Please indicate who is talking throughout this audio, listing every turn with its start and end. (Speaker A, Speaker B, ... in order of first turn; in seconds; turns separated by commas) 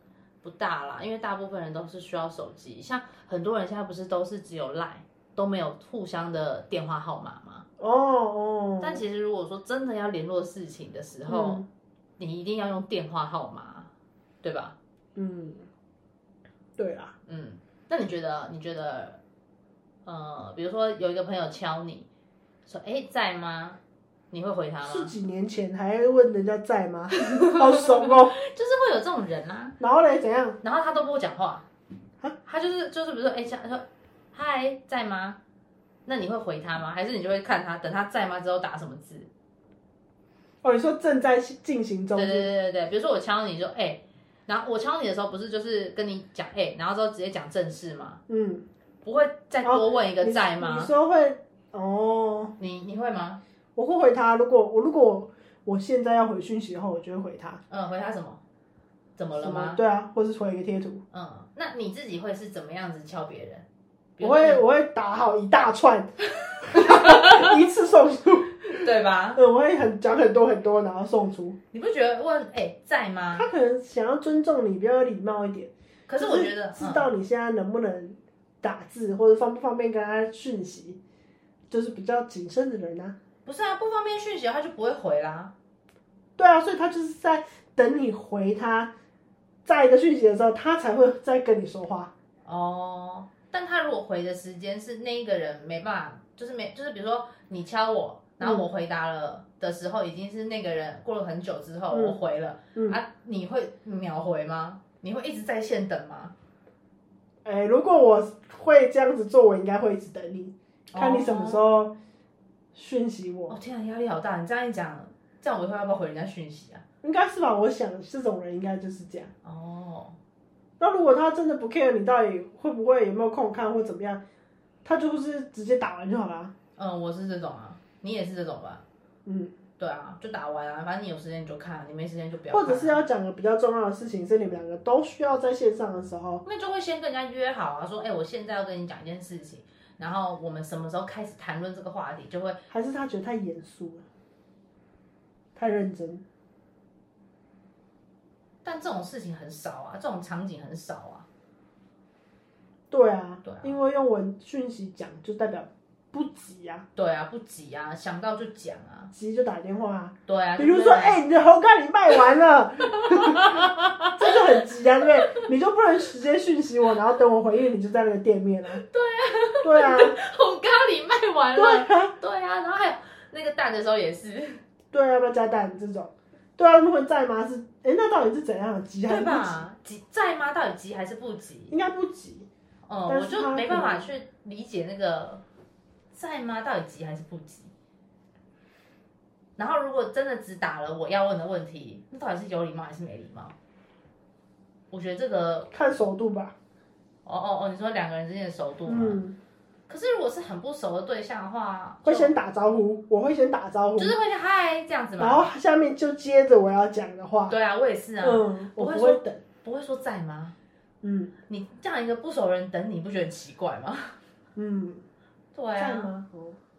Speaker A: 0.4-7.7, Speaker B: 7.8-9.0, Speaker A: 8.8-11.7, Speaker B: 11.3-11.7, Speaker A: 12.2-13.9, Speaker A: 14.4-14.8, Speaker B: 15.2-15.7, Speaker B: 16.8-17.1, Speaker A: 17.3-19.2, Speaker A: 20.1-22.1, Speaker A: 22.7-23.8, Speaker A: 24.3-25.1, Speaker B: 24.8-28.4, Speaker A: 27.2-29.8, Speaker B: 29.8-30.6, Speaker A: 30.6-31.7, Speaker A: 32.5-35.4, Speaker A: 36.1-39.3, Speaker B: 40.6-42.5, Speaker A: 42.2-48.2, Speaker B: 48.3-48.6, Speaker A: 49.0-50.9, Speaker B: 49.6-52.5, Speaker A: 52.6-53.4, Speaker B: 53.8-57.6, Speaker A: 57.7-58.4, Speaker A: 59.2-59.8, Speaker B: 59.4-61.0, Speaker A: 61.1-63.6, Speaker A: 64.2-64.6, Speaker B: 64.2-68.8, Speaker A: 66.5-67.6, Speaker A: 68.7-69.4, Speaker B: 69.3-71.6, Speaker A: 71.7-73.5, Speaker B: 73.3-81.0, Speaker A: 76.1-77.1, Speaker B: 81.7-83.2, Speaker A: 83.5-85.5, Speaker B: 86.4-88.9, Speaker B: 89.7-92.1, Speaker A: 92.5-106.3, Speaker B: 101.9-102.2, Speaker B: 107.5-112.0, Speaker A: 110.9-111.6, Speaker B: 112.7-113.6, Speaker A: 113.5-116.8, Speaker B: 117.0-119.3, Speaker A: 119.4-120.2, Speaker B: 120.8-124.2, Speaker B: 124.8-126.5, Speaker A: 126.8-128.8, Speaker B: 129.2-129.5, Speaker A: 129.8-133.0, Speaker B: 132.5-136.4, Speaker A: 136.4-142.6, Speaker B: 142.7-144.1, Speaker B: 145.6-146.2, Speaker A: 148.6-151.3, Speaker B: 152.9-156.9, Speaker A: 153.4-153.8, Speaker A: 157.0-159.1, Speaker B: 159.1-168.8, Speaker A: 160.3-161.2, Speaker A: 163.0-164.4, Speaker A: 165.2-165.4, Speaker A: 168.8-174.6, Speaker B: 169.6-170.2, Speaker B: 171.6-172.1, Speaker B: 174.9-179.6, Speaker A: 179.1-181.8, Speaker B: 181.7-182.5, Speaker A: 182.9-185.4, Speaker B: 183.1-184.1, Speaker A: 186.1-187.7, Speaker A: 189.6-193.6, Speaker A: 194.9-195.7, Speaker B: 195.7-196.6, Speaker A: 197.2-199.2, Speaker B: 198.9-199.4, Speaker A: 199.9-202.3, Speaker B: 202.0-204.2, Speaker A: 204.0-205.5, Speaker B: 205.2-207.6, Speaker A: 207.5-210.6, Speaker B: 208.2-209.4, Speaker B: 211.0-211.3, Speaker A: 211.5-214.2, Speaker B: 214.6-215.1, Speaker A: 215.5-216.1, Speaker B: 215.8-216.6